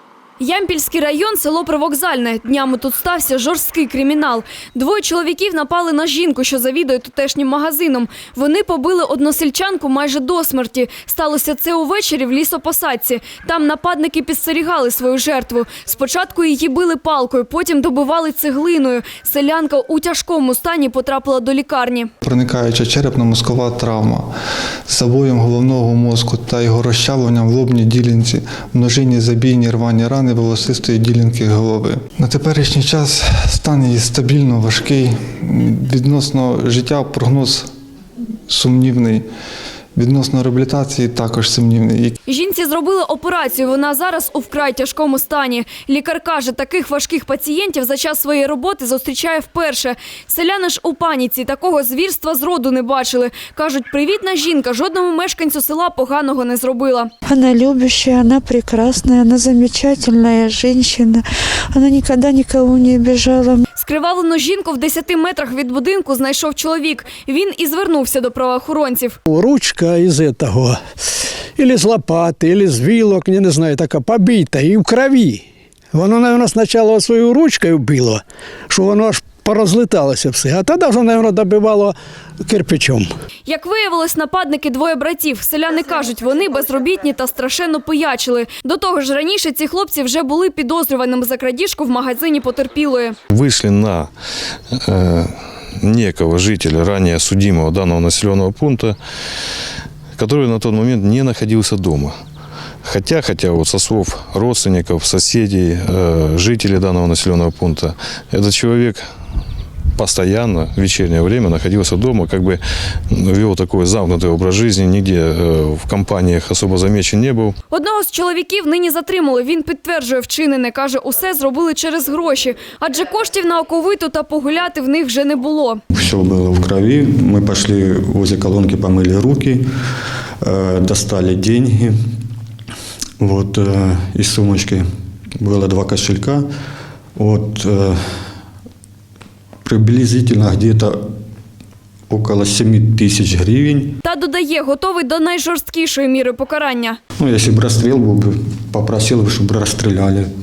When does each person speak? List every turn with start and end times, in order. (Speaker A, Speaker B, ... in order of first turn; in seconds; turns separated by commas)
Speaker A: 0.4-22.1, Speaker B: 22.2-24.3, Speaker B: 24.9-37.7, Speaker B: 38.5-39.2, Speaker B: 39.9-42.1, Speaker A: 42.3-57.1, Speaker C: 57.2-63.6, Speaker A: 63.8-69.2, Speaker D: 69.3-70.8, Speaker D: 71.6-83.1, Speaker A: 83.5-93.2, Speaker E: 93.3-94.1, Speaker E: 94.7-99.0, Speaker E: 100.2-102.2, Speaker E: 102.8-109.0, Speaker E: 110.0-117.5, Speaker A: 117.7-125.8, Speaker F: 125.9-129.6, Speaker F: 130.4-131.9, Speaker F: 133.2-134.8, Speaker F: 135.4-136.5, Speaker F: 137.2-138.3, Speaker F: 139.6-141.0, Speaker F: 142.1-144.0, Speaker A: 144.0-147.0, Speaker F: 147.2-150.3